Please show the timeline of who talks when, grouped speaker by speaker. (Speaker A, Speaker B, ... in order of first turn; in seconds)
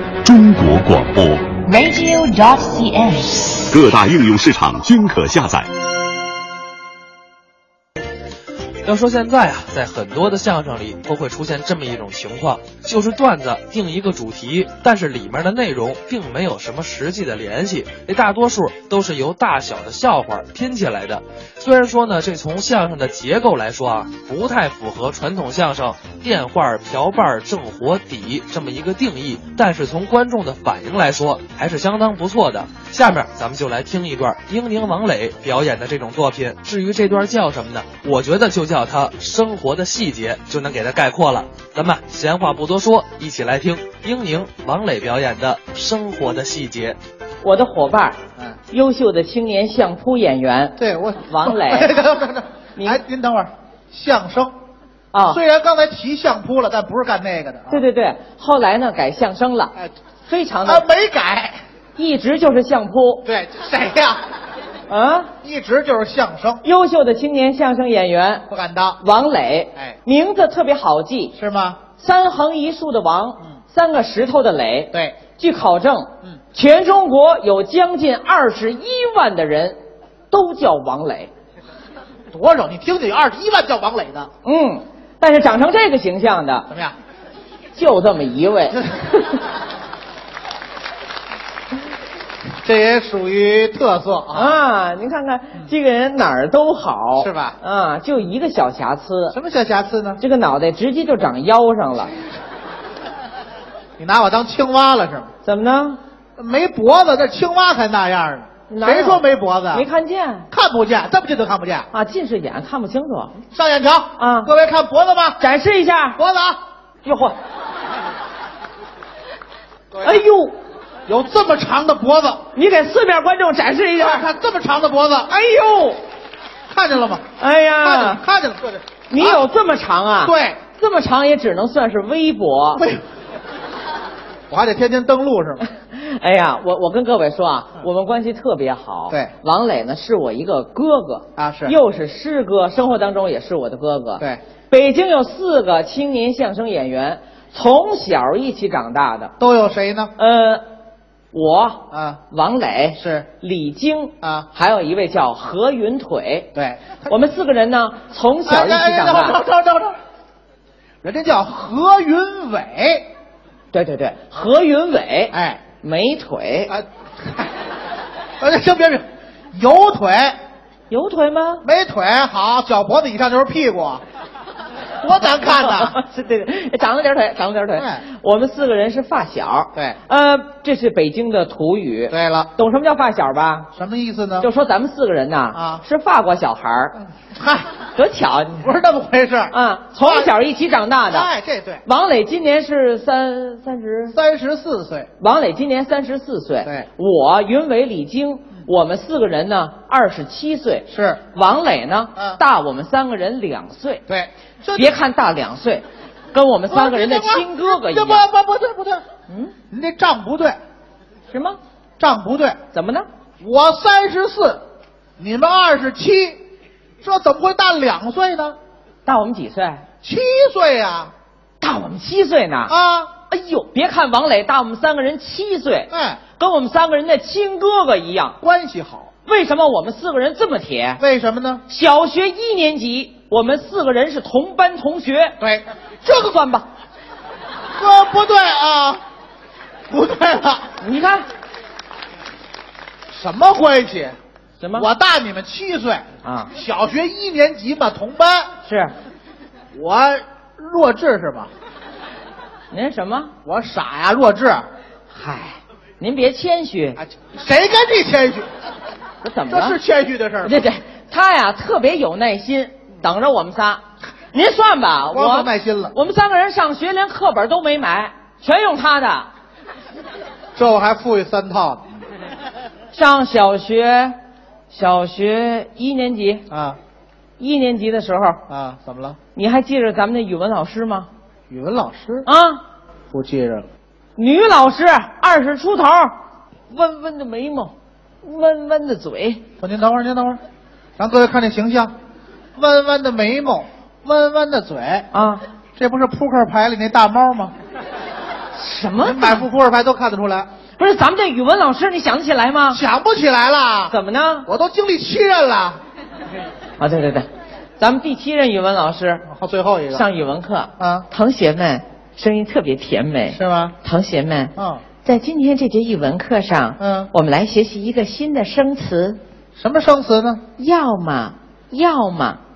Speaker A: 0.2-1.6, 3.7-5.7
Speaker B: 1.6-3.6
Speaker C: 8.8-47.0
Speaker D: 47.4-48.2, 48.7-51.9, 52.8-53.0, 55.1-55.4, 57.7-60.9, 62.0-63.2, 64.9-65.3, 66.6-68.5, 69.0-71.3, 72.0-79.8, 80.3-81.3, 84.4-86.7, 87.7-88.8, 94.3-99.3, 100.2-102.2, 105.4-106.0, 108.7-110.5, 111.9-113.4, 114.2-114.5, 115.4-116.2, 117.0-117.3, 120.0-120.5, 122.5-124.3, 125.3-126.0, 127.4-128.2, 129.1-132.9, 135.9-149.3, 150.2-150.6, 151.3-156.5, 157.1-159.4, 163.7-166.7, 170.9-171.6, 175.1-183.7, 184.4-187.0, 187.9-188.7, 189.5-191.3, 191.8-194.2, 195.2-204.0, 204.7-208.2, 209.3-209.5, 211.3-211.6, 212.7-213.1, 219.0-219.8, 221.6-222.7, 223.2-228.4, 229.2-231.0, 231.7-235.4, 236.0-236.7, 240.8-241.2, 244.6-244.9, 246.2-246.5, 248.6-248.9, 252.7-253.3, 255.1-257.0, 259.2-259.8, 260.4-269.3, 272.9-274.2, 274.7-276.4, 277.4-278.4, 279.3-281.1, 282.2-282.6, 284.1-286.1, 286.7-289.4, 295.1-295.4, 298.5-299.4, 300.8-302.8, 303.9-304.5, 306.8-307.3, 307.8-309.2, 309.9-319.2, 320.6-322.4
Speaker E: 50.8-54.5, 55.3-57.8, 60.6-61.6, 63.2-64.2, 65.4-66.6, 68.5-69.0, 71.3-71.8, 82.3-84.3, 86.7-87.0, 92.6-94.6, 97.2-97.6, 99.3-100.2, 104.0-105.3, 106.4-109.8, 110.5-111.9, 113.5-115.4, 116.2-116.6, 119.9-120.2, 121.0-122.5, 124.0-125.3, 126.7-127.2, 127.8-129.4, 130.2-130.6, 134.5-135.6, 141.3-141.8, 149.4-150.1, 151.9-152.2, 153.0-153.3, 154.2-154.5, 156.5-157.1, 158.4-160.0, 161.0-163.1, 165.3-165.6, 166.7-167.5, 168.4-170.4, 171.6-174.0, 175.0-176.0, 177.8-178.1, 182.1-182.5, 183.7-184.5, 185.5-185.8, 187.0-187.7, 188.6-190.3, 191.1-191.8, 194.1-195.1, 200.9-201.2, 202.2-202.4, 204.1-204.9, 206.7-209.0, 209.7-210.6, 212.0-212.6, 213.4-214.6, 215.2-216.4, 217.0-218.6, 220.0-221.1, 222.7-223.1, 225.9-226.2, 228.4-229.1, 231.0-231.6, 235.4-235.7, 237.8-239.0, 239.9-240.7, 243.1-244.2, 244.7-248.5, 249.7-251.5, 253.4-254.7, 257.0-258.5, 259.5-260.7, 265.1-265.9, 270.5-271.9, 276.5-276.8, 278.5-279.2, 281.5-282.3, 283.1-283.6, 289.6-290.4, 291.0-291.9, 292.6-295.1, 295.8-297.5, 299.0-300.5, 302.7-303.9, 304.4-305.8, 309.3-310.1, 310.8-311.1, 313.3-313.7, 314.6-314.8, 316.8-317.1, 319.6-320.4